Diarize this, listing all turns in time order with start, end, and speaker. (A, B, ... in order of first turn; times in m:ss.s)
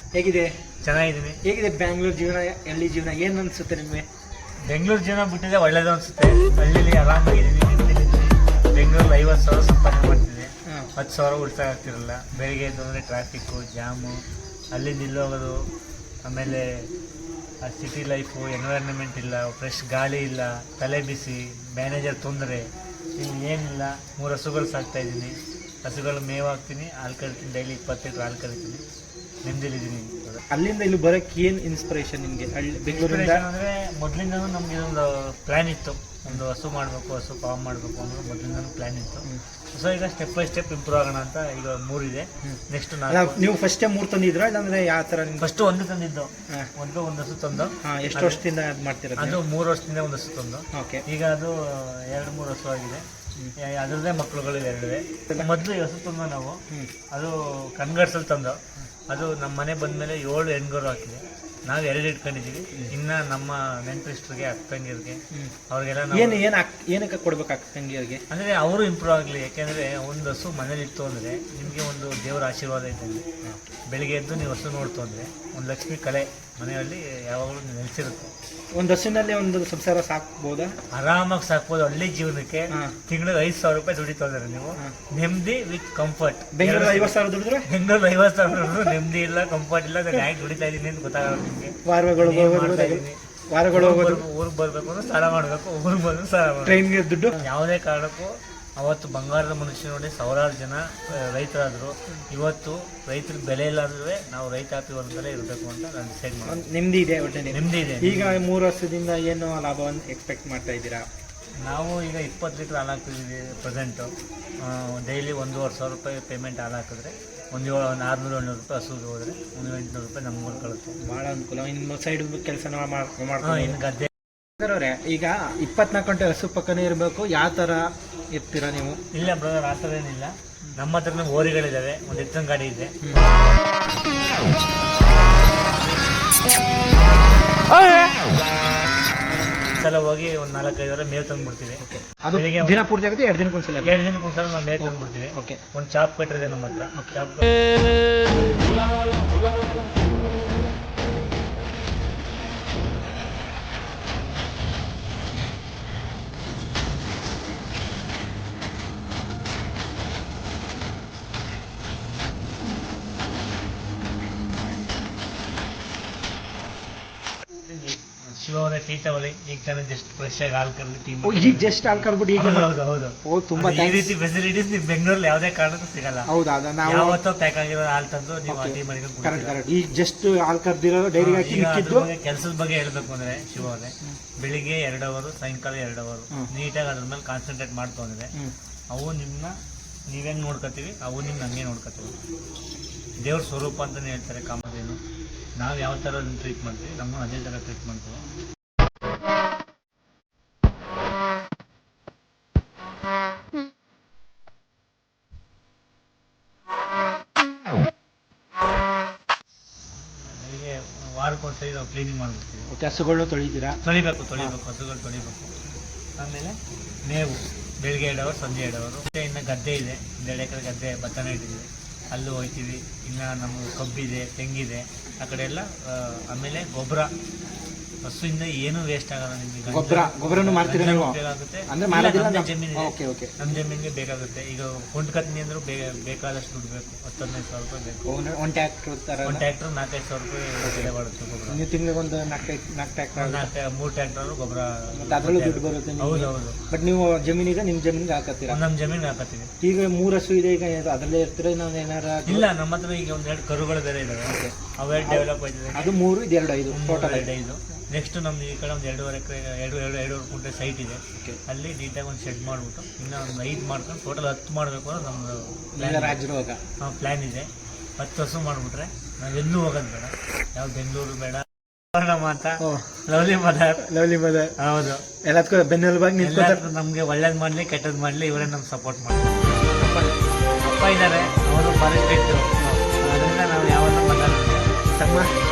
0:00.1-0:00.5 A
0:00.8-0:01.4 B
0:01.4-0:04.0 A
0:04.6-0:14.2 B
0:14.7-0:15.6 B
0:16.2-0:16.9 B
0:17.6-0:28.8 B
0:29.4-0:30.4 B
0:30.5-0:33.4 A
0:32.9-0:43.4 B
0:42.4-0:45.5 A
0:45.4-0:48.4 B
0:47.8-0:49.4 A
0:49.2-0:53.0 B
0:50.7-0:51.0 A
0:53.6-1:06.4 B
1:06.1-1:08.2 A
1:08.3-1:13.2 B
1:13.9-1:18.3 B
1:18.7-1:20.7 A
1:20.9-1:33.2 B
1:26.5-1:27.7 A
1:31.8-1:34.2 A
1:33.7-1:36.8 B
1:36.6-1:37.5 A
1:37.4-1:46.6 B
1:46.4-1:51.0 A
1:47.5-1:48.4 B
1:51.6-2:01.0 B
2:01.0-2:03.8 A
2:03.4-2:04.1 B
2:04.6-2:09.0 A
2:09.1-2:13.2 B
2:19.7-2:22.8 B
2:21.8-2:23.9 A
2:23.8-2:27.6 B
2:24.8-2:25.6 A
2:47.6-2:56.3 B
2:51.2-2:54.1 A
2:56.2-2:57.2 A
2:56.8-2:59.6 B
2:58.5-3:02.1 A
3:01.2-3:08.3 B
3:08.9-3:09.6 B
3:10.1-3:12.1 B
3:13.2-3:15.0 B
3:15.6-3:18.2 B
3:30.1-3:32.7 B
3:32.7-3:33.8 A
3:33.8-3:35.5 B
3:36.2-3:47.1 B
3:48.0-3:58.0 B
3:49.7-3:53.4 A
3:58.0-3:59.4 A
3:59.2-4:01.6 B
4:00.6-4:00.9 A
4:01.5-4:03.5 A
4:03.2-4:06.6 B
4:04.9-4:08.6 A
4:08.5-4:09.5 B
4:09.6-4:12.4 A
4:12.2-4:15.9 B
4:14.2-4:17.3 A
4:16.7-4:26.2 B
4:25.8-4:26.6 A
4:26.8-4:33.9 B
4:32.6-4:32.9 A
4:33.8-4:34.5 A
4:34.6-4:35.0 B
4:35.2-4:36.6 A
4:36.2-4:39.6 B
4:39.6-4:40.1 A
4:40.6-4:44.7 B
4:45.0-4:45.3 A